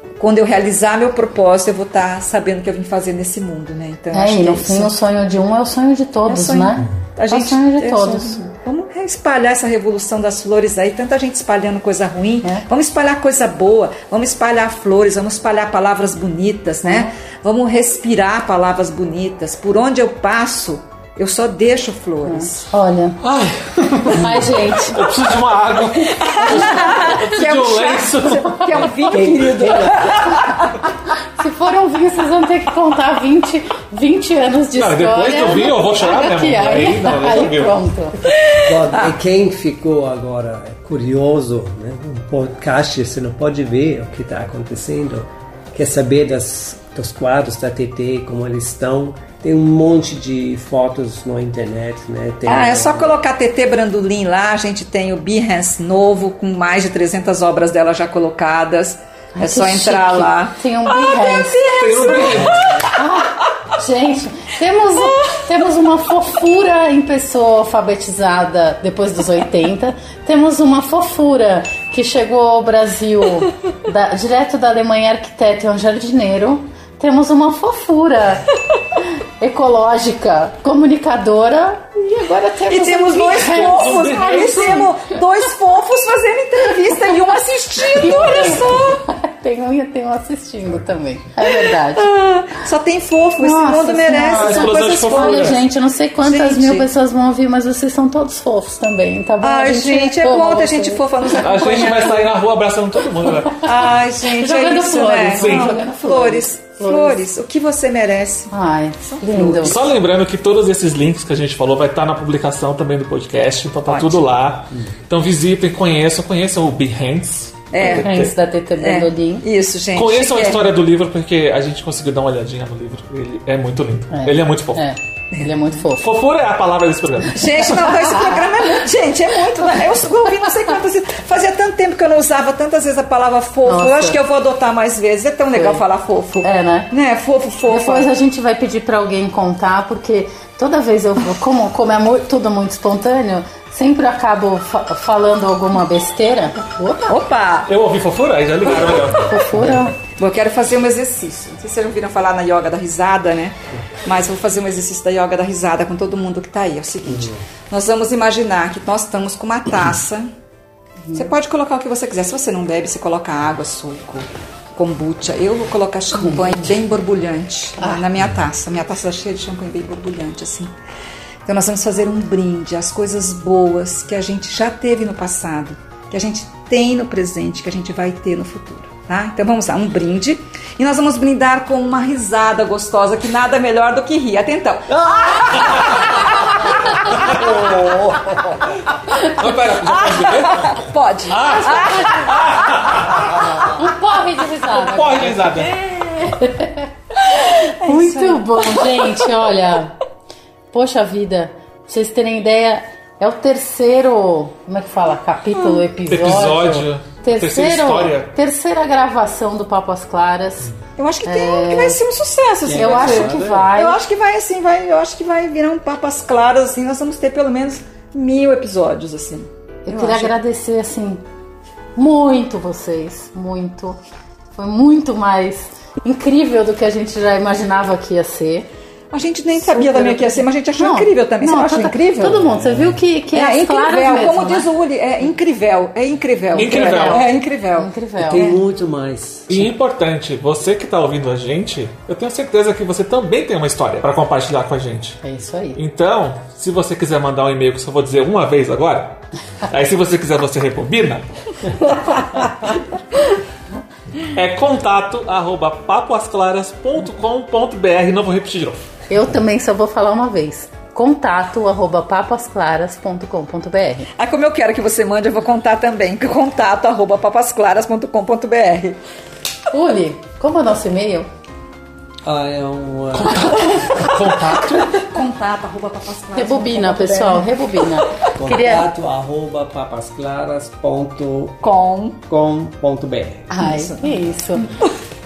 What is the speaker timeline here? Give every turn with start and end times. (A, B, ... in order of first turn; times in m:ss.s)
0:00.2-0:04.9 A
0:04.1-0:08.4 B
0:06.3-0:22.6 A
0:22.2-0:23.2 B
0:23.2-0:28.9 C
0:24.1-0:25.0 B
0:26.1-0:30.8 A
0:26.6-0:27.0 B
0:29.1-0:30.4 D
0:31.4-0:38.2 B
0:34.8-0:37.8 C
0:38.3-0:39.0 A
0:38.6-0:53.1 D
0:52.5-1:02.6 A
0:59.4-1:18.4 B
1:01.8-1:02.8 C
1:19.4-1:24.9 B
1:22.7-1:29.0 A
1:23.4-1:24.9 C
1:26.7-1:27.3 B
1:27.9-1:32.1 B
1:31.4-1:35.6 A
1:33.4-1:41.2 B
1:34.3-1:35.6 C
1:36.2-1:36.9 A
1:39.4-1:42.3 A
1:41.4-1:43.7 C
1:43.6-1:48.5 A
1:44.2-1:47.2 B
1:45.4-1:45.8 C
1:48.5-1:49.8 B
1:49.0-1:49.8 A
1:49.6-1:58.3 C
1:53.9-1:54.2 A
1:57.7-1:58.1 A
1:57.8-1:59.4 B
1:58.8-2:00.7 A
2:00.0-2:04.9 C
2:04.1-2:06.0 B
2:05.4-2:05.7 A
2:05.9-2:07.7 C
2:07.3-2:18.1 A
2:07.9-2:08.4 B
2:13.7-2:14.2 B
2:15.5-2:15.8 B
2:16.4-2:16.9 B
2:17.7-2:27.2 B
2:27.1-2:27.7 A
2:27.7-2:29.4 C
2:29.2-2:30.0 B
2:29.5-2:29.9 D
2:30.2-2:40.3 A
2:37.1-2:37.4 D
2:41.1-2:50.7 A
2:46.2-2:46.6 B
2:47.8-2:48.0 B
2:51.4-3:08.4 A
3:05.0-3:05.4 D
3:05.7-3:06.0 C
3:07.2-3:08.6 D
3:09.2-3:13.4 C
3:09.9-3:12.3 A
3:11.4-3:12.4 B
3:13.3-3:20.0 B
3:14.7-3:15.8 C
3:17.2-3:19.4 A
3:20.7-3:30.7 B
3:26.1-3:28.3 C
3:31.0-3:40.3 A
3:31.2-3:32.0 B
3:32.7-3:33.7 D
3:32.7-3:34.0 B
3:39.9-3:41.2 B
3:42.0-3:44.0 B
3:44.6-3:48.7 B
3:49.1-3:52.5 A
3:49.6-3:54.7 B
3:52.5-3:53.0 D
3:53.3-3:58.6 A
3:56.5-3:57.3 C
3:56.6-3:58.5 B
3:58.2-3:59.7 D
3:59.5-4:05.2 C
4:05.2-4:05.8 B
4:05.8-4:11.2 C
4:11.9-4:12.2 C
4:14.4-4:18.8 C
4:19.1-4:24.1 B
4:24.2-4:29.0 A
4:29.7-4:31.3 B
4:32.2-4:33.7 D
4:33.1-4:35.0 C
4:34.8-4:38.0 A
4:36.4-4:38.9 B
4:38.4-4:41.6 D
4:41.6-4:42.2 A
4:42.3-4:43.5 D
4:43.5-4:44.7 B
4:43.6-4:44.3 A